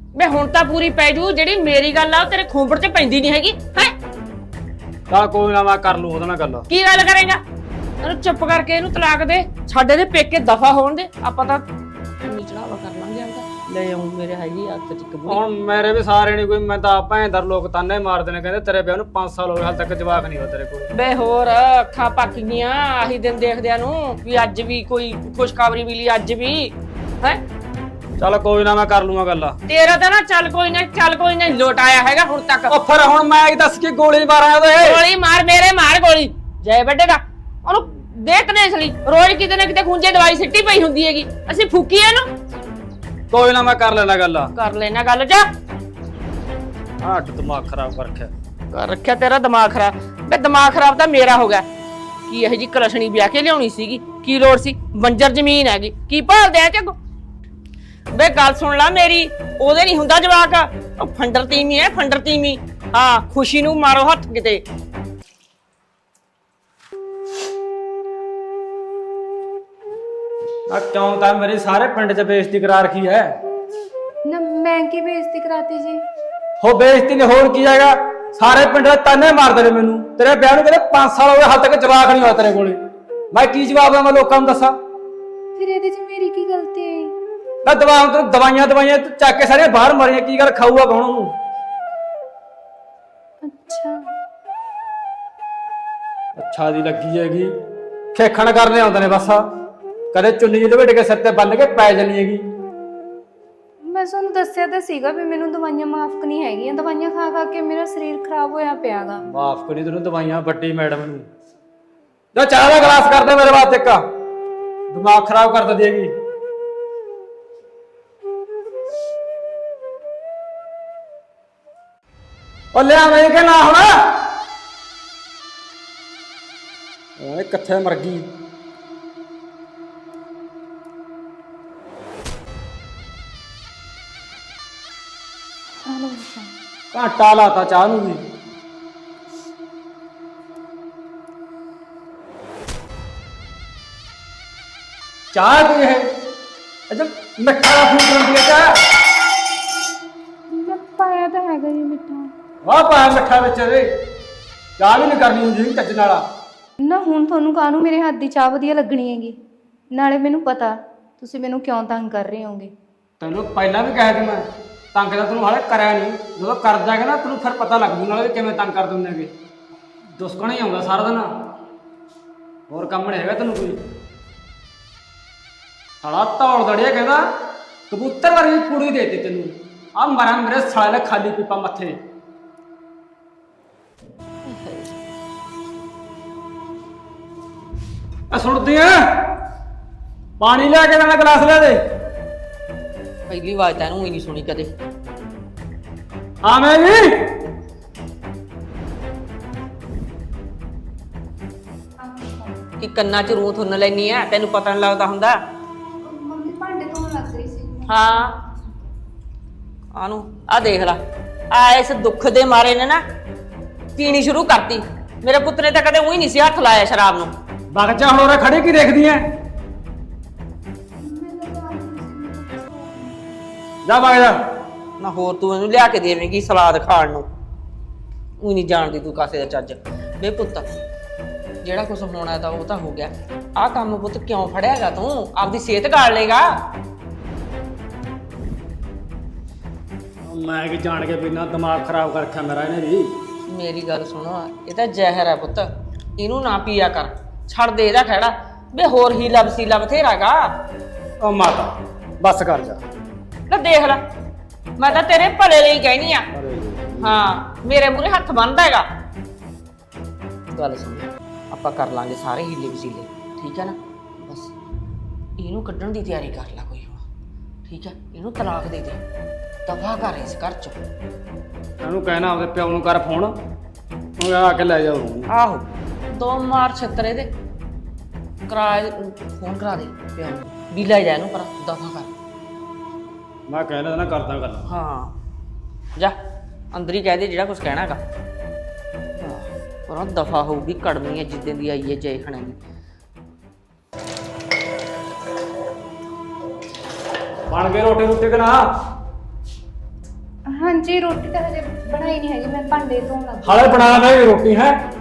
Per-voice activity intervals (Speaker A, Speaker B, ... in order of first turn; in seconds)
Speaker A: 0.2-3.9, 6.7-7.4, 8.0-11.7, 12.2-15.4, 20.9-27.4, 29.7-32.8, 34.8-42.3, 44.5-45.5, 48.7-51.7, 52.3-57.0, 58.1-64.6, 184.4-184.9, 193.3-194.7, 202.8-205.4, 207.9-208.4, 209.9-213.0, 214.0-217.3, 225.0-227.3, 228.4-230.7, 231.6-236.5, 243.5-250.6, 253.5-254.0, 254.8-256.3, 257.0-258.9, 260.5-264.5, 265.4-267.1, 267.7-269.0, 269.7-270.8, 275.3-277.3, 278.5-282.1, 284.7-285.2, 286.7-288.0, 289.2-292.6
Speaker B: 5.1-6.7, 15.3-20.9, 28.2-29.6, 32.7-35.0, 43.3-44.5, 47.0-48.3, 70.7-73.3, 76.6-82.8, 83.3-84.8, 87.7-91.3, 96.4-97.5, 98.1-99.4, 100.1-102.4, 109.3-111.3, 112.3-114.0, 114.9-116.1, 122.7-124.3, 127.2-128.3, 136.9-138.2, 145.3-146.0, 146.9-148.8, 152.7-153.9, 154.8-156.2, 163.2-169.3, 170.2-171.6, 172.7-173.8, 176.0-182.0, 188.3-189.4, 190.4-191.8, 196.4-197.4, 217.7-219.2, 223.9-224.4, 240.3-243.1, 251.2-252.8, 256.3-257.2, 271.8-273.4, 274.2-275.3, 283.5-284.7, 297.5-298.7, 303.4-304.8
Speaker C: 74.3-76.0, 85.6-87.2, 93.4-94.0, 103.8-109.2, 135.8-136.5, 150.5-152.3, 156.8-159.4, 159.9-162.7, 202.0-202.7, 206.0-208.8, 221.0-223.6, 300.5-303.8